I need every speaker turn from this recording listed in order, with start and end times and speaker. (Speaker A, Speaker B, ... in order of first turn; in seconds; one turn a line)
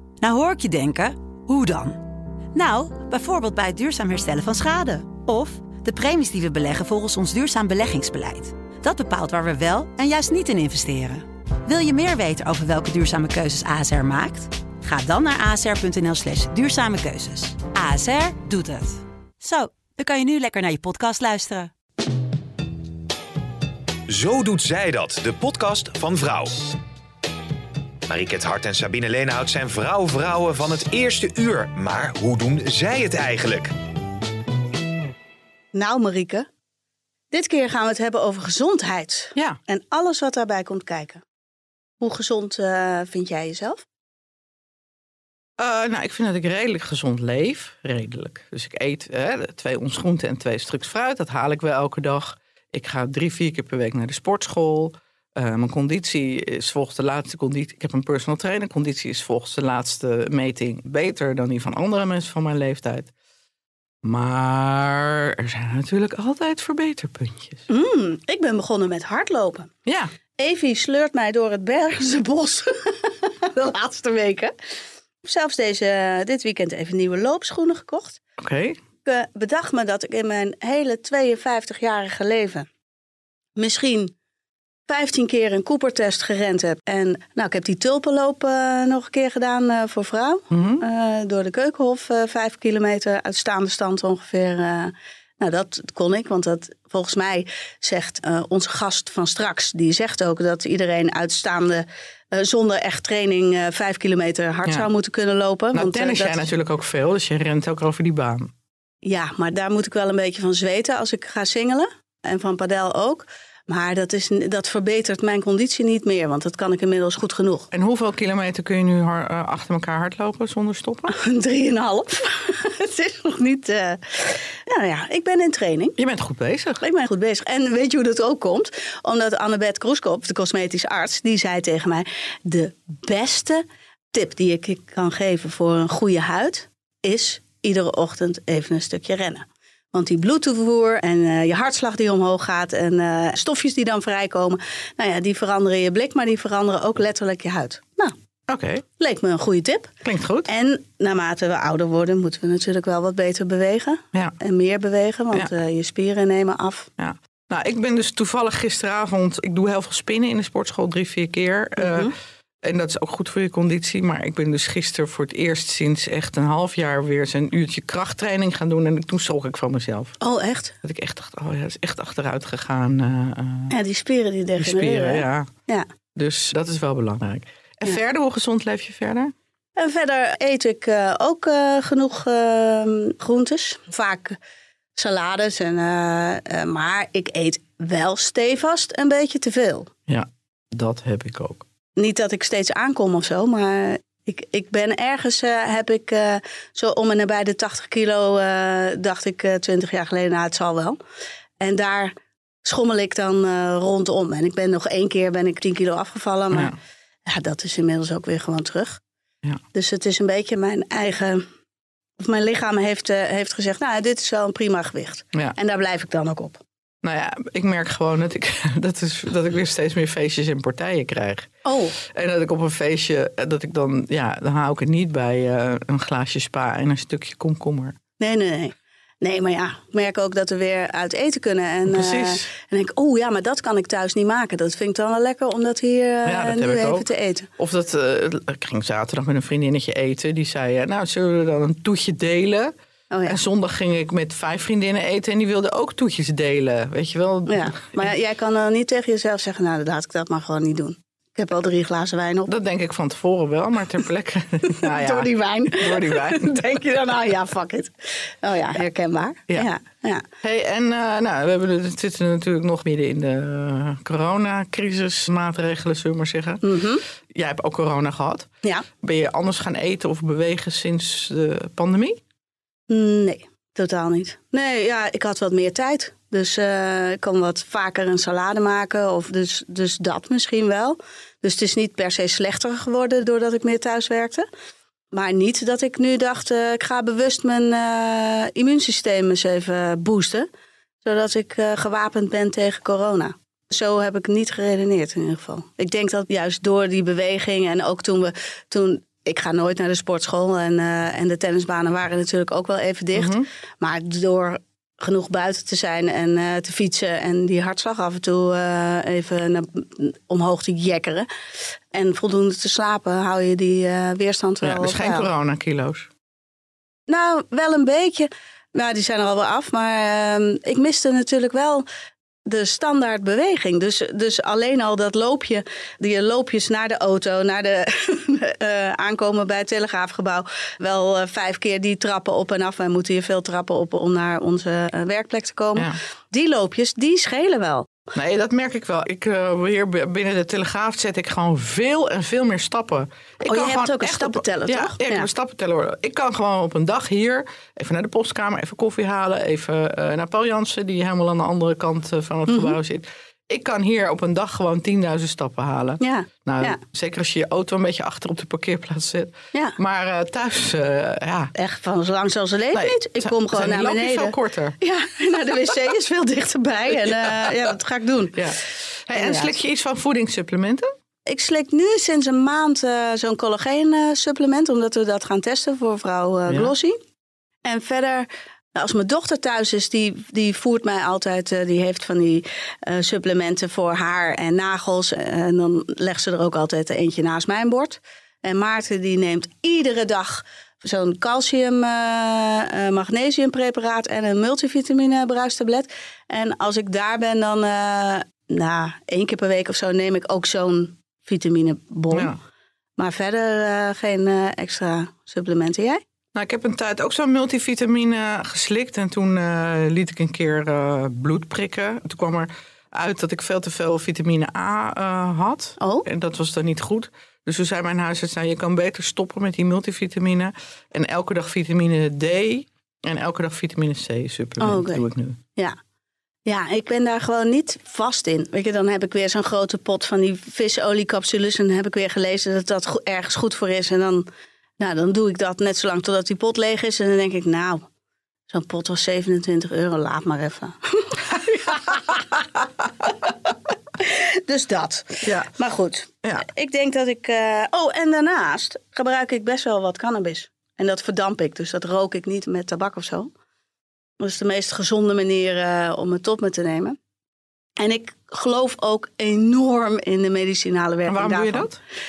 Speaker A: 0.2-2.0
Speaker A: 2.5-21.7
Speaker B: 24.1-26.6
Speaker B: 28.1-33.7
Speaker C: 35.7-36.5
Speaker C: 37.3-41.2
Speaker C: 42.0-43.8
Speaker D: 45.6-63.1
Speaker D: 64.0-67.6
Speaker C: 67.7-69.7
Speaker D: 69.9-70.1
Speaker C: 70.4-74.5
Speaker C: 75.2-78.2
Speaker D: 78.4-78.8
Speaker C: 79.0-82.7
Speaker C: 83.6-84.1
Speaker C: 84.9-106.4
Speaker D: 90.5-90.8
Speaker D: 105.7-108.5
Speaker C: 109.0-117.7
Speaker D: 117.7-121.1
Speaker C: 121.1-126.0
Speaker D: 126.0-126.8
Speaker C: 126.8-148.1
Speaker D: 148.5-148.8
Speaker C: 149.0-149.9
Speaker D: 150.0-150.5
Speaker C: 150.5-156.9
Speaker D: 157.0-162.1
Speaker C: 161.8-162.1
Speaker D: 162.6-170.2
Speaker C: 170.2-170.8
Speaker D: 170.8-173.7
Speaker C: 173.7-175.9
Speaker D: 174.6-175.5
Speaker D: 176.2-179.3
Speaker C: 179.8-184.4
Speaker C: 184.9-189.9
Speaker D: 190.1-191.6
Speaker C: 191.9-201.0
Speaker C: 201.6-206.7
Speaker D: 206.5-206.8
Speaker C: 207.3-209.0
Speaker C: 209.7-211.4
Speaker C: 212.2-216.6
Speaker D: 217.0-227.9
Speaker C: 221.6-221.9
Speaker C: 228.2-237.5
Speaker D: 231.9-232.5
Speaker D: 236.2-242.7
Speaker C: 243.1-243.4
Speaker D: 243.2-247.8
Speaker C: 247.5-252.5
Speaker D: 252.5-256.6
Speaker C: 254.8-260.2
Speaker D: 260.4-266.6
Speaker C: 266.6-267.0
Speaker D: 267.3-268.5
Speaker D: 269.0-272.2
Speaker C: 272.9-284.5
Speaker C: 285.1-290.5
Speaker C: 291.0-311.3
Speaker D: 303.1-303.4
Speaker C: 311.9-315.3
Speaker D: 314.6-316.1
Speaker C: 317.1-321.8
Speaker C: 322.4-337.9
Speaker D: 338.1-361.5
Speaker C: 343.4-345.3
Speaker C: 352.5-352.8
Speaker C: 356.0-356.8
Speaker C: 361.6-368.4
Speaker D: 362.7-364.8
Speaker D: 368.3-370.9
Speaker C: 369.1-369.5
Speaker C: 371.3-377.0
Speaker C: 377.6-402.3
Speaker D: 402.1-402.4
Speaker C: 403.0-406.0
Speaker D: 406.3-425.4
Speaker C: 415.8-416.1
Speaker C: 424.6-425.8
Speaker C: 426.4-434.2
Speaker C: 434.8-437.9
Speaker C: 438.5-442.4
Speaker C: 443.0-443.3
Speaker C: 444.0-453.3
Speaker D: 445.2-445.5
Speaker C: 454.2-457.0
Speaker C: 457.8-461.7
Speaker D: 461.1-461.8